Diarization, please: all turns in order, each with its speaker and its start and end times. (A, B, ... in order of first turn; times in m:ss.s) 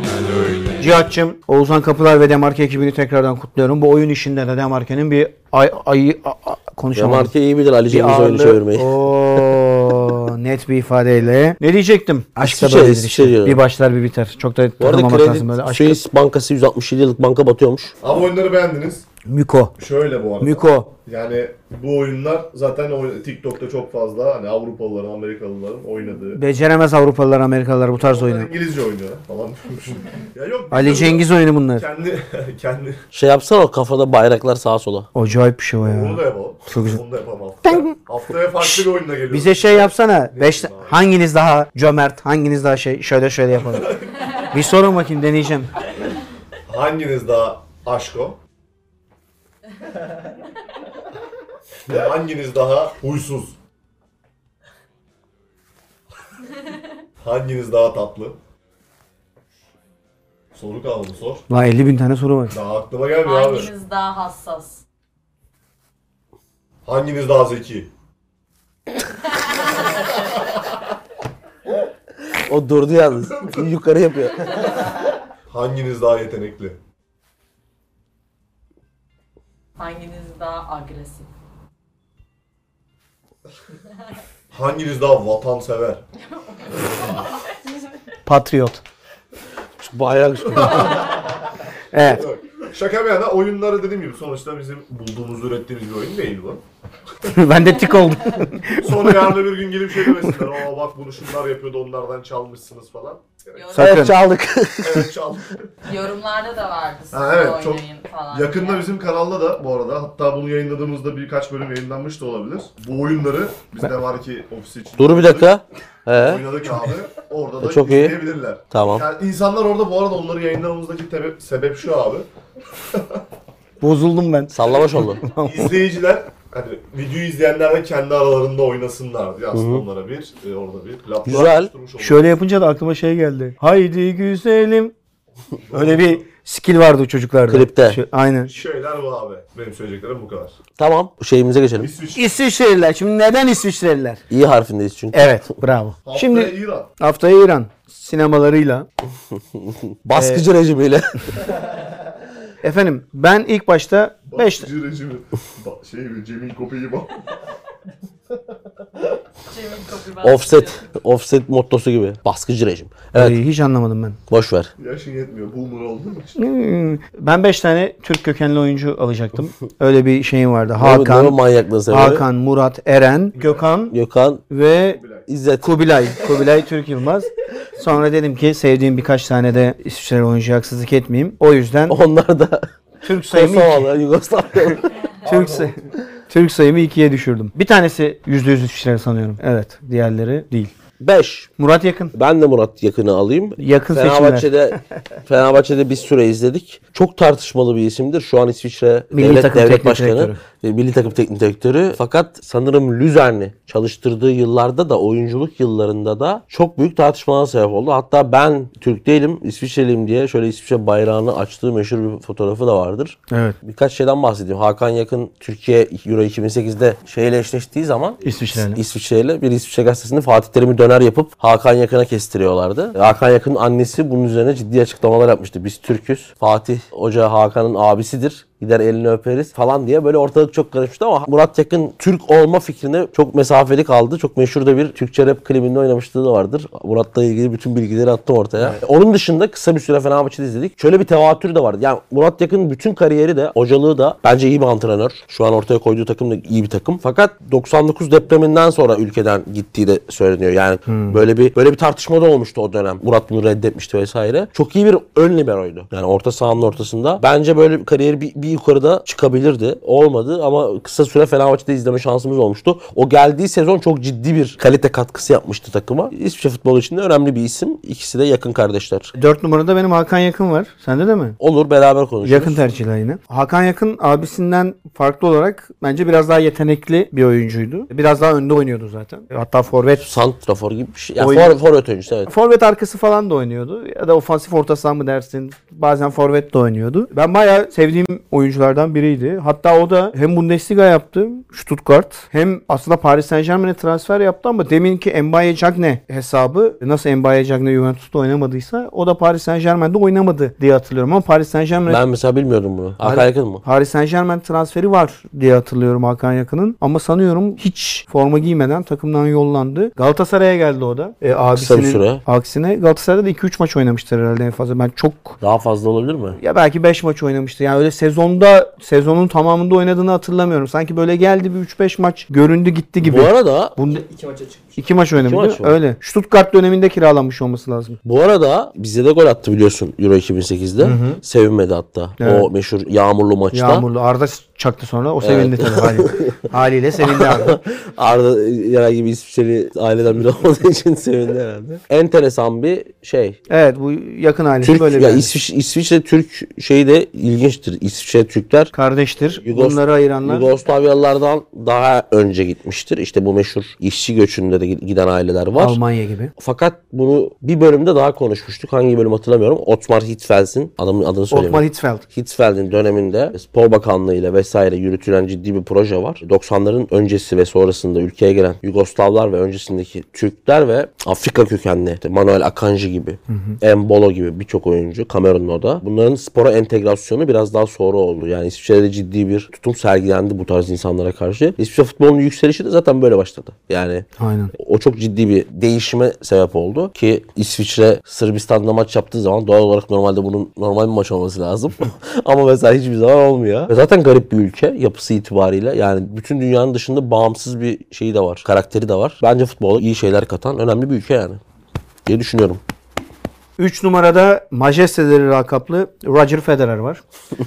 0:00.8-0:07.3 A
0:07.0-0:09.0 B
0:07.9-0:16.0 A
0:12.4-0:13.6 B
0:14.8-0:17.9 B
0:18.0-0:19.1 C
0:19.3-0:19.8 A
0:19.8-0:26.4 C
0:20.4-0:20.9 A
0:26.4-0:28.5 A
0:28.0-0:33.0 C
0:30.7-0:31.8 A
0:33.1-0:35.1 B
0:35.2-0:37.0 A
0:35.8-0:41.0 C
0:37.6-0:38.0 A
0:38.6-0:45.7 A
0:46.7-0:48.4 C
0:51.9-0:53.6 C
0:57.2-0:58.4 C
1:00.5-1:01.4 C
1:01.5-1:02.6 A
1:02.5-1:03.7 C
1:03.2-1:04.8 D
1:06.8-1:07.9 C
1:12.3-1:14.7 B
1:15.5-1:16.8 C
1:19.8-1:21.3 D
1:24.5-1:26.0 C
1:26.4-1:27.4 D
1:28.3-1:28.8 A
1:29.8-1:31.1 B
1:30.6-1:31.1 C
1:31.9-1:32.3 A
1:32.0-1:36.6 C
1:37.2-1:39.3 A
1:38.8-1:43.7 C
1:43.6-1:44.1 D
1:43.7-1:44.2 A
1:43.8-1:45.1 B
1:44.8-1:45.7 C
1:45.8-1:48.9 D
1:47.1-1:55.6 C
1:55.0-1:56.5 B
1:56.1-2:02.3 C
1:57.6-1:58.2 B
1:58.7-1:59.1 B
2:02.9-2:03.2 C
2:03.8-2:05.7 A
2:04.5-2:05.2 B
2:05.3-2:12.4 C
2:09.5-2:09.8 B
2:11.2-2:11.7 B
2:12.0-2:14.9 A
2:15.6-2:16.2 C
2:15.7-2:18.5 A
2:17.5-2:18.0 B
2:18.5-2:20.6 C
2:20.8-2:21.9 B
2:21.8-2:22.3 C
2:22.2-2:24.2 A
2:24.3-2:25.5 B
2:25.1-2:28.9 A
2:26.1-2:26.9 C
2:29.6-2:31.5 B
2:30.1-2:30.4 A
2:32.6-2:34.7 A
2:34.3-2:37.4 C
2:39.5-2:40.9 D
2:40.2-2:43.4 B
2:43.2-2:44.2 A
2:44.3-2:44.7 B
2:44.8-2:46.4 C
2:46.4-2:51.4 A
2:50.8-2:52.2 B
2:51.9-2:54.0 A
2:53.4-2:53.6 C
2:53.9-2:54.4 B
2:54.5-2:55.0 A
2:54.8-2:55.3 C
2:55.3-2:55.8 B
2:55.6-3:02.0 A
3:01.9-3:02.7 B
3:03.0-3:03.9 A
3:03.3-3:05.0 B
3:05.2-3:05.9 C
3:05.2-3:05.8 A
3:06.3-3:10.7 A
3:11.0-3:11.5 B
3:11.6-3:12.1 A
3:12.1-4:29.1 B
3:13.6-3:14.5 A
3:19.1-3:20.4 A
3:33.3-3:33.6 A
3:38.2-3:38.8 A
4:10.9-4:11.2 A
4:29.2-4:31.4 A
4:31.4-4:32.6 B
4:32.2-4:40.1 A
4:40.0-4:42.3 B
4:41.2-4:41.6 A
4:42.3-5:02.0 A
5:01.9-5:03.6 B
5:03.0-5:15.4 A
5:11.6-5:12.2 B
5:15.4-5:16.4 B
5:16.4-5:24.1 A
5:23.0-5:23.8 B
5:24.8-5:28.0 A
5:25.2-5:25.8 B
5:28.0-5:33.8 B
5:30.8-5:31.2 A
5:32.2-5:32.5 A
5:33.5-5:37.6 A
5:35.2-5:36.5 B
5:37.0-5:43.4 B
5:43.5-5:45.3 A
5:44.6-5:48.7 B
5:48.7-5:50.5 A
5:49.4-5:55.8 B
5:55.6-5:56.3 A
5:56.4-6:41.4 B
6:01.3-6:02.0 A
6:13.3-6:13.6 A
6:24.2-6:24.5 A
6:42.1-6:42.6 B
6:43.6-6:47.0 A